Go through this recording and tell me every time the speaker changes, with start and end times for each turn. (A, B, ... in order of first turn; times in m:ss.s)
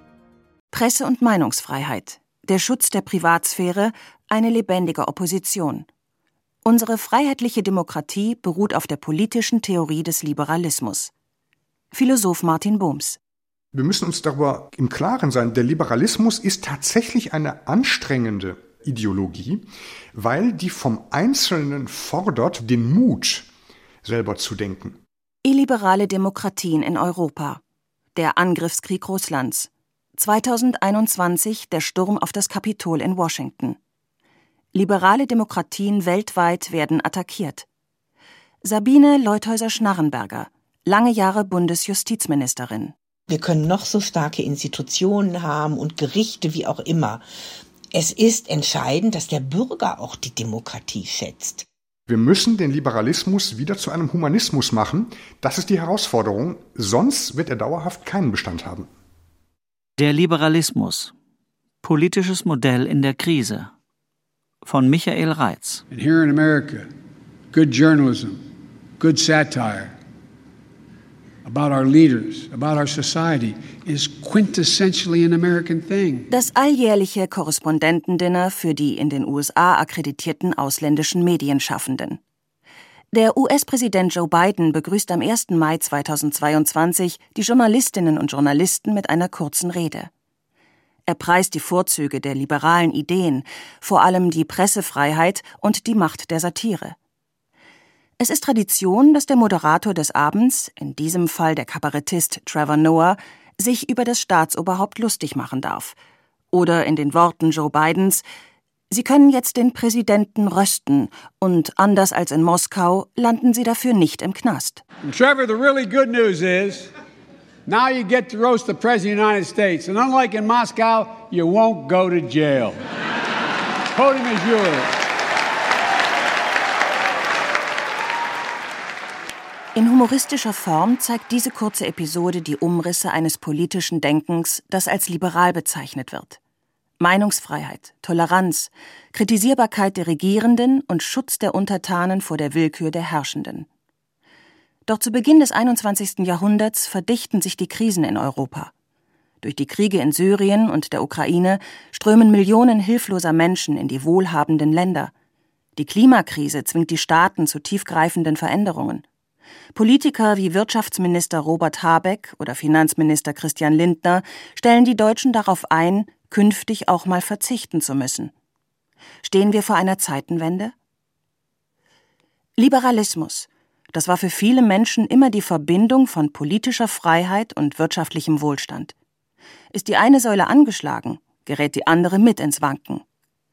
0:00.7-0:05.9 A
0:06.6-0:11.1 A
0:11.9-0:13.2 A
0:13.7-0:23.5 B
0:24.0-0:25.0 B
0:25.4-0:27.6 A
0:28.1-0:33.8 A
0:34.7-0:37.7 A
0:38.6-0:42.9 A
0:43.3-0:47.2 C
0:47.9-0:51.7 C
0:52.1-0:58.9 B
1:00.0-1:01.1 D
1:01.8-1:03.7 D
1:04.6-1:05.8 D
1:05.9-1:06.9 E
1:07.5-1:08.4 E
1:09.0-1:09.9 E
1:11.4-1:16.3 E
1:16.3-1:22.2 A
1:23.1-1:30.1 A
1:31.1-1:37.0 A
1:38.2-1:46.0 A
1:46.5-1:48.2 A
1:48.9-1:54.8 A
1:55.0-1:56.9 E
1:57.7-2:02.8 E
2:03.9-2:05.1 E
2:09.8-2:16.4 A
2:17.0-2:23.7 A
2:24.9-2:28.7 A
2:29.4-2:35.1 A
2:35.8-2:39.0 A
2:39.8-2:48.3 A
2:49.2-2:50.7 A
2:52.6-2:58.9 A
2:59.7-3:03.0 A